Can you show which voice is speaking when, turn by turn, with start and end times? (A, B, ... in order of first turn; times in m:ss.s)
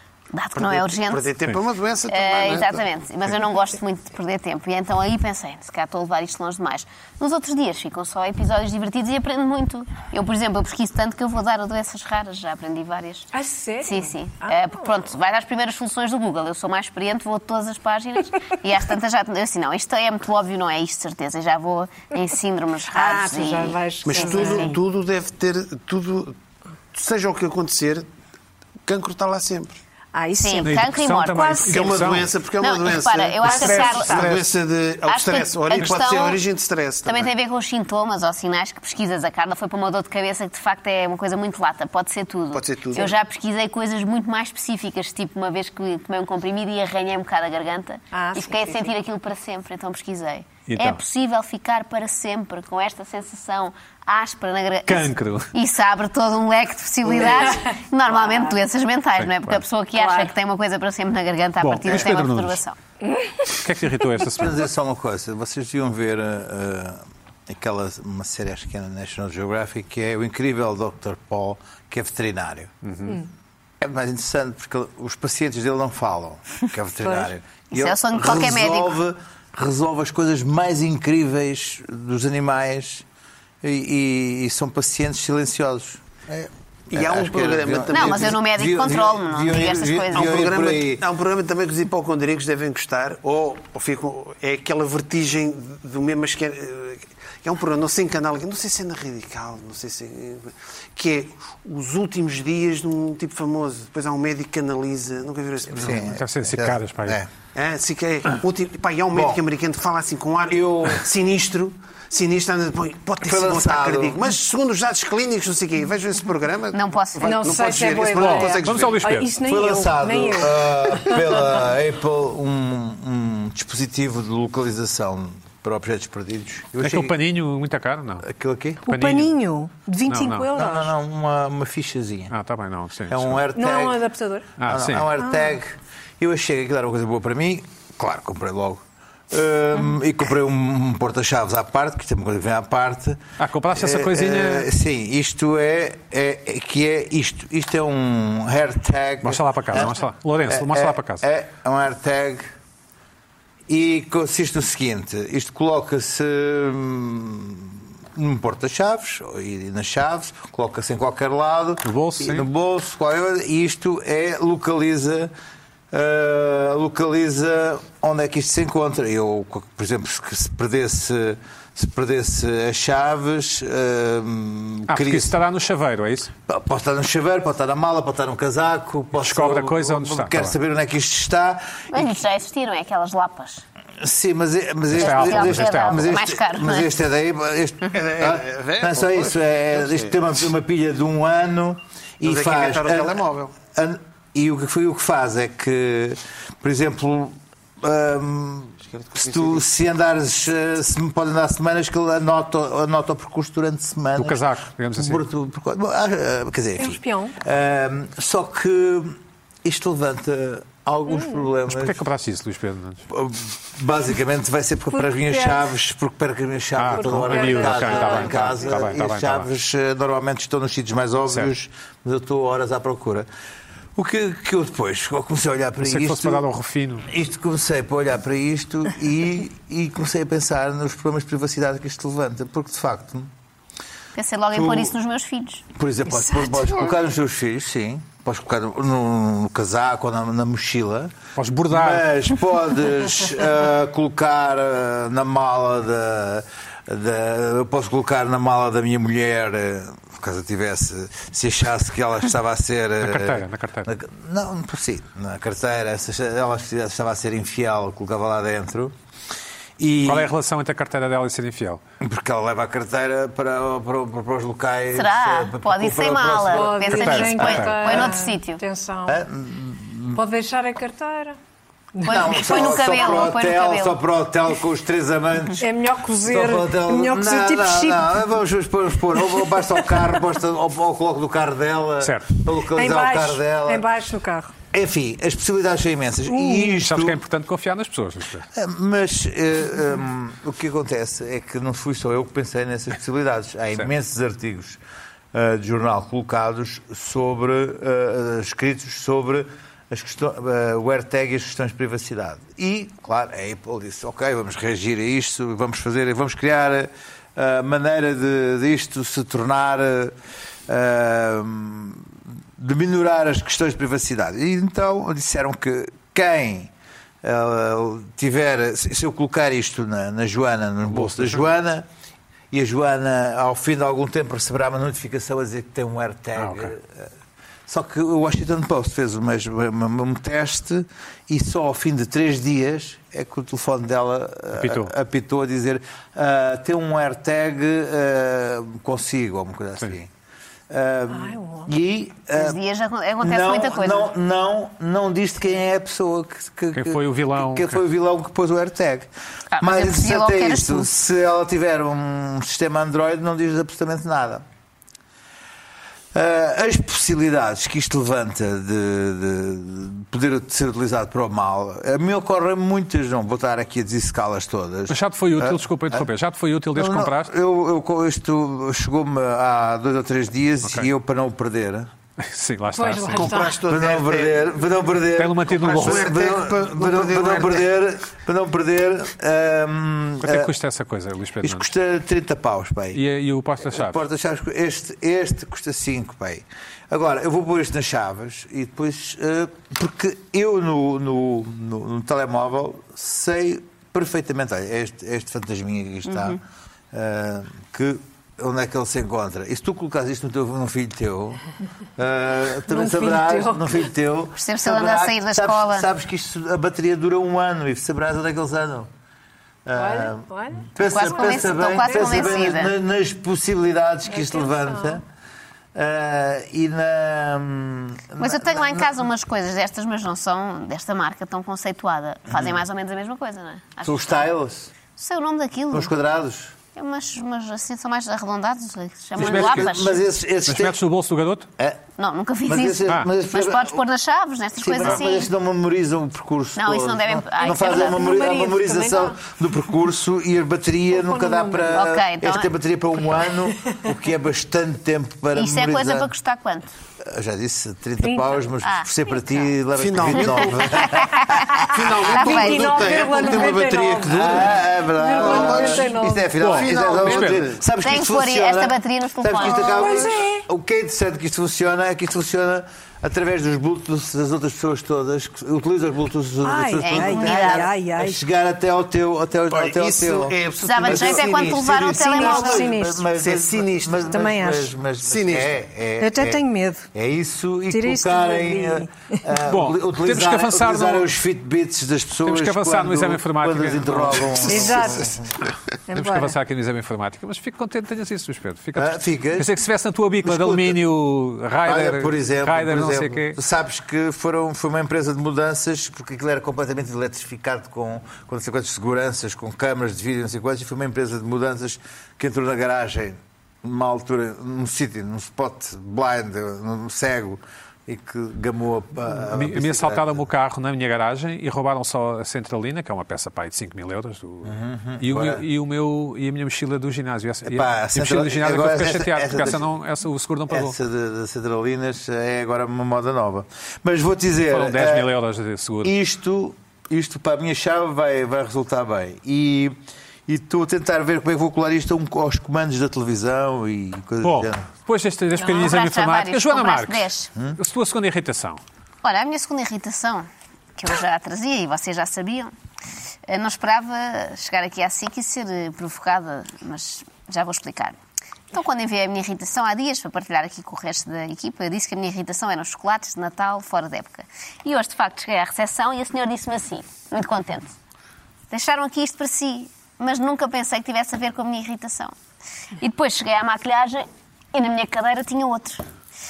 0:00.3-0:01.3 A
0:00.6-0:02.9 B
0:02.1-0:13.3 A
0:13.3-0:14.8 C
0:13.8-0:24.7 A
0:22.9-0:24.8 C
0:24.0-0:26.4 B
0:26.9-0:28.1 B
0:28.8-0:29.8 B
0:30.1-0:31.8 C
0:30.4-0:31.7 A
0:30.6-0:32.3 D
0:31.7-0:37.3 B
0:32.6-0:34.3 A
0:33.4-0:34.3 C
0:35.1-0:36.4 A
0:37.0-1:02.8 A
0:42.5-0:43.1 B
0:48.1-0:48.9 C
0:50.7-0:51.0 D
0:54.8-0:55.5 D
0:57.1-0:58.6 C
0:59.2-0:59.6 D
0:59.9-1:00.3 C
1:01.6-1:02.6 D
1:03.0-1:03.5 C
1:03.5-1:04.5 D
1:04.3-1:12.7 E
1:12.8-1:13.2 D
1:13.8-1:23.0 E
1:17.0-1:17.3 C
1:17.7-1:18.9 A
1:23.6-1:31.0 E
1:26.9-1:28.4 B
1:27.9-1:30.4 A
1:30.1-1:46.2 B
1:45.7-1:47.3 E
1:46.0-1:47.2 D
1:47.5-1:59.1 B
1:49.1-1:49.4 E
1:50.5-1:51.0 E
1:53.2-1:54.2 E
1:56.7-1:57.4 A
1:57.2-2:01.4 C
1:58.1-1:59.3 D
1:59.4-2:07.2 E
2:06.8-2:08.3 D
2:08.2-2:08.8 E
2:08.8-2:10.9 C
2:08.8-2:09.4 D
2:10.1-2:10.5 D
2:10.5-2:12.3 E
2:12.3-2:13.4 D
2:13.1-2:14.0 E
2:13.5-2:14.5 C
2:14.6-2:15.1 D
2:14.6-2:32.5 E
2:15.2-2:15.6 C
2:23.4-2:24.7 D
2:29.2-2:31.2 D
2:33.7-2:45.3 E
2:41.8-2:42.5 D
2:45.9-2:55.4 E
2:54.9-2:56.3 D
2:56.5-3:02.1 E
2:59.2-3:00.6 D
3:01.9-3:03.6 A
3:04.0-3:24.4 E
3:04.9-3:06.1 D
3:04.9-3:06.9 A
3:07.9-3:10.2 B
3:12.2-3:13.5 B
3:18.9-3:19.6 B
3:24.2-3:25.2 D
3:25.0-3:32.0 E
3:26.8-3:27.4 C
3:31.1-3:31.4 C
3:31.7-3:33.0 D
3:33.1-3:43.3 E
3:34.9-3:35.7 C
3:36.8-3:39.5 D
3:36.9-3:38.6 C
3:44.0-3:46.4 E
3:45.8-3:47.1 D
3:47.0-3:53.3 E
3:54.1-3:55.6 A
3:54.5-3:54.9 E
3:55.7-4:01.1 E
3:56.1-3:56.9 C
4:01.4-4:02.1 D
4:01.7-4:18.9 E
4:13.0-4:13.9 D
4:19.8-4:20.3 E
4:20.0-4:21.8 D
4:22.0-4:27.0 E
4:24.9-4:28.6 A
4:26.5-4:29.2 C
4:26.9-4:28.0 D
4:29.1-4:30.2 E
4:30.1-4:31.4 C
4:32.0-4:32.3 C
4:32.0-4:34.0 A
4:32.0-4:35.6 E
4:35.6-4:38.2 C
4:36.2-4:43.9 E
4:42.0-4:42.3 D
4:42.7-4:44.5 C
4:44.7-4:47.2 E
4:46.3-4:46.8 C
4:46.7-4:48.5 D
4:48.5-4:54.8 E
4:55.3-5:10.1 E
5:10.7-5:16.7 E
5:17.2-5:21.9 E
5:20.9-5:21.5 D
5:22.5-5:27.1 E
5:26.4-5:26.7 D
5:27.7-5:40.1 E
5:34.5-5:34.9 D
5:40.7-5:42.6 E
5:41.1-5:41.7 C
5:42.3-5:44.1 A
5:43.2-5:54.4 E
5:46.7-5:47.8 D
5:49.5-5:50.9 A
5:56.1-6:06.1 E
6:04.9-6:07.3 D
6:06.7-6:11.9 E
6:10.6-6:10.9 D
6:12.2-6:13.4 D
6:12.7-6:13.6 C
6:13.1-6:14.6 B
6:13.6-6:20.5 E
6:15.2-6:16.1 D
6:15.5-6:17.7 B
6:20.2-6:21.7 D
6:21.4-6:23.0 E
6:22.9-6:24.0 D
6:23.6-6:36.4 E
6:36.1-6:36.4 A
6:36.9-6:41.4 E
6:42.0-6:48.9 E
6:42.7-6:43.8 C
6:44.4-6:45.9 A
6:49.6-6:55.0 E
6:49.7-6:52.5 C
6:50.8-6:52.7 A
6:54.1-6:55.0 C
6:55.7-6:59.0 E
6:58.2-7:04.3 A
7:03.8-7:04.7 E
7:05.0-7:05.9 A
7:05.7-7:06.5 E
7:06.7-7:10.0 A
7:09.2-7:09.7 D
7:09.2-7:10.8 E
7:10.5-7:11.5 D
7:11.6-7:11.8 E
7:12.0-7:15.3 A
7:12.4-7:13.8 E
7:14.6-7:26.1 E
7:16.6-7:18.1 A
7:17.4-7:19.2 C
7:20.9-7:21.8 C
7:21.7-7:22.5 A
7:25.3-7:26.7 A
7:27.0-7:31.9 E
7:28.0-7:28.4 C
7:28.6-7:28.9 A
7:29.8-7:37.6 B
7:30.1-7:32.9 A
7:32.1-7:36.3 C
7:34.1-7:51.4 E
7:36.4-7:37.4 D
7:37.8-7:40.1 A
7:39.4-7:40.4 C
7:46.4-7:48.2 C
7:46.8-7:47.7 A
7:49.5-7:54.2 B
7:50.6-7:52.7 A
7:51.9-7:53.0 C
7:52.2-7:56.4 E
7:54.1-7:54.7 C
7:55.0-7:55.5 B
7:56.0-7:56.9 C
7:56.9-8:05.2 E
7:57.7-7:59.2 C
7:59.4-8:01.1 D
8:02.2-8:04.6 D
8:04.4-8:05.2 C
8:05.9-8:06.4 C
8:05.9-8:13.4 D
8:08.7-8:09.5 E
8:10.2-8:10.8 E
8:11.6-8:30.2 E
8:29.3-8:40.7 D
8:34.4-8:35.4 E
8:37.4-8:39.6 E
8:40.5-8:45.1 E
8:44.5-8:45.9 D
8:45.8-8:54.7 E
8:54.2-8:58.6 D
8:55.4-8:57.3 A
8:59.0-9:02.5 A
9:03.3-9:08.0 A
9:08.5-9:17.7 A
9:18.5-9:22.1 A
9:22.8-9:25.8 A